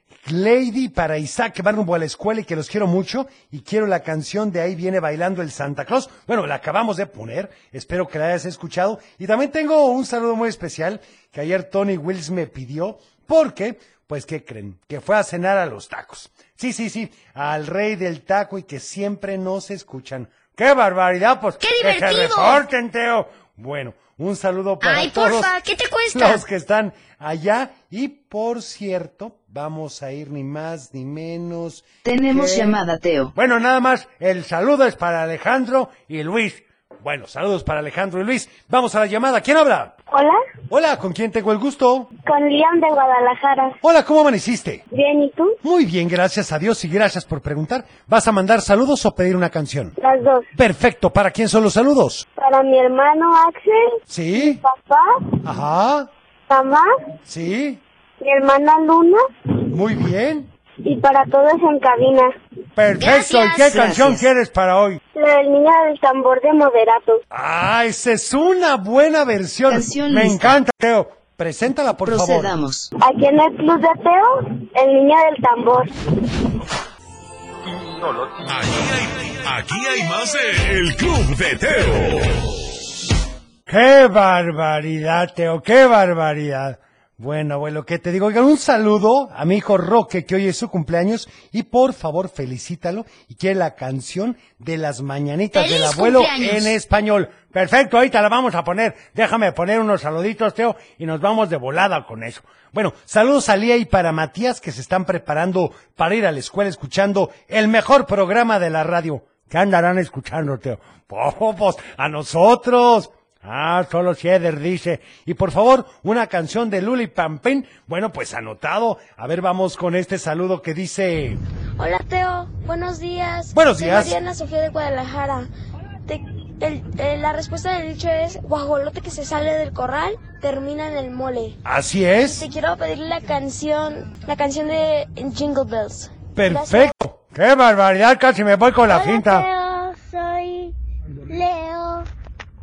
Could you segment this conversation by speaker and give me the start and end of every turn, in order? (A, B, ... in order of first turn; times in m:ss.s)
0:00.2-0:25.5 A
0:21.6-0:22.6 B
0:24.8-0:26.4 B
0:26.1-0:32.8 A
0:32.0-0:33.3 C
0:33.4-0:40.0 A
0:40.7-0:42.1 A
0:42.2-0:43.7 D
0:43.8-0:44.8 A
0:45.0-0:45.5 D
0:45.6-0:49.9 A
0:50.0-0:50.4 D
0:50.6-0:52.2 A
0:52.4-0:53.7 D
0:54.1-0:54.6 A
0:55.4-0:56.1 A
0:56.5-0:56.8 D
0:57.3-0:57.8 A
0:58.2-0:59.2 D
0:59.7-1:00.5 A
1:00.8-1:02.2 D
1:02.8-1:05.0 A
1:03.0-1:03.8 B
1:03.6-1:04.3 C
1:05.2-1:07.1 D
1:07.3-1:12.5 A
1:09.7-1:10.6 C
1:12.0-1:12.9 C
1:13.1-1:14.2 D
1:14.8-1:15.8 D
1:18.5-1:22.4 E
1:23.7-2:01.4 A
1:35.5-1:36.7 B
2:01.8-2:05.5 F
2:03.5-2:04.2 A
2:06.1-2:11.6 F
2:11.6-2:12.4 A
2:12.2-2:16.9 F
2:16.4-2:19.5 A
2:18.9-2:20.7 G
2:21.3-2:22.1 G